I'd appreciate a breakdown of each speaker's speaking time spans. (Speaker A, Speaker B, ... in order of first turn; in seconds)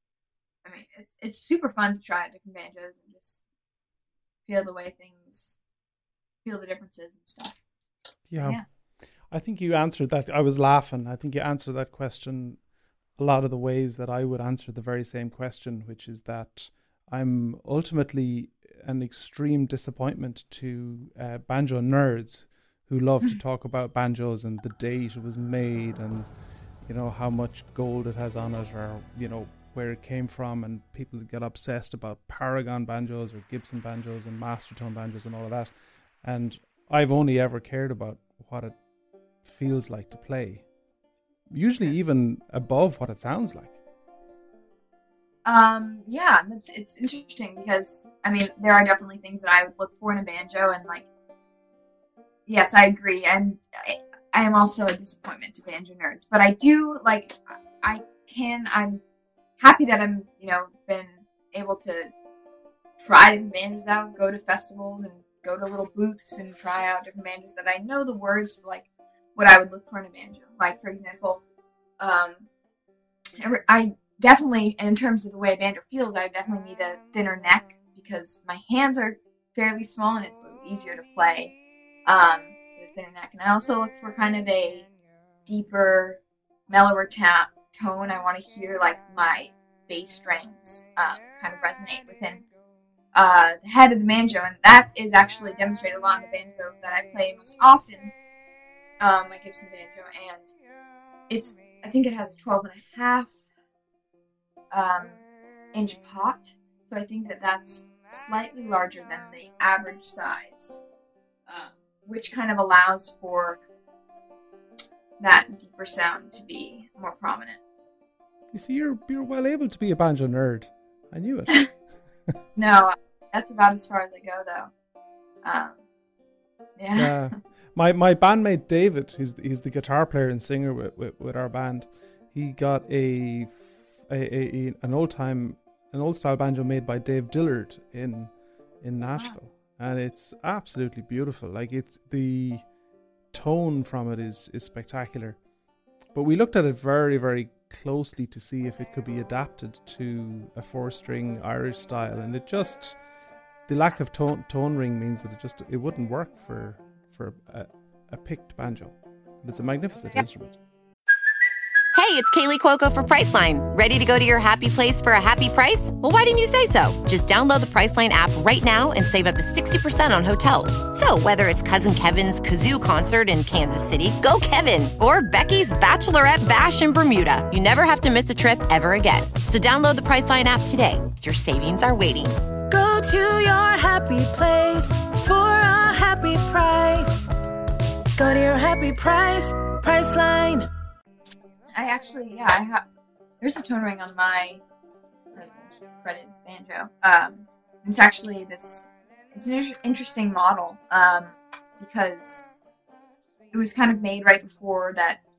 Speaker A: 0.6-3.4, 4.5-5.6, 6.4-7.6, 8.4-8.6, 45.4-51.1, 52.5-59.0, 59.6-62.1, 63.0-71.4, 72.0-72.5, 73.4-84.9, 85.5-92.4, 93.1-98.1, 99.0-100.5, 101.3-103.4, 104.7-105.2, 105.7-110.8, 111.5-113.6, 115.2-117.6, 122.5-124.7, 125.4-125.8, 126.8-127.4, 191.7-192.8, 193.4-194.6, 195.3-202.5, 203.5-205.2
Speaker B: 8.3-8.6, 9.3-12.6, 13.2-26.3, 26.8-35.7, 36.2-38.8, 39.4-40.6, 41.5-43.8, 118.5-121.7, 126.9-142.6, 143.3-145.4, 146.1-153.0, 153.7-160.6
Speaker C: 161.9-182.4
Speaker D: 182.7-187.3, 188.2-190.7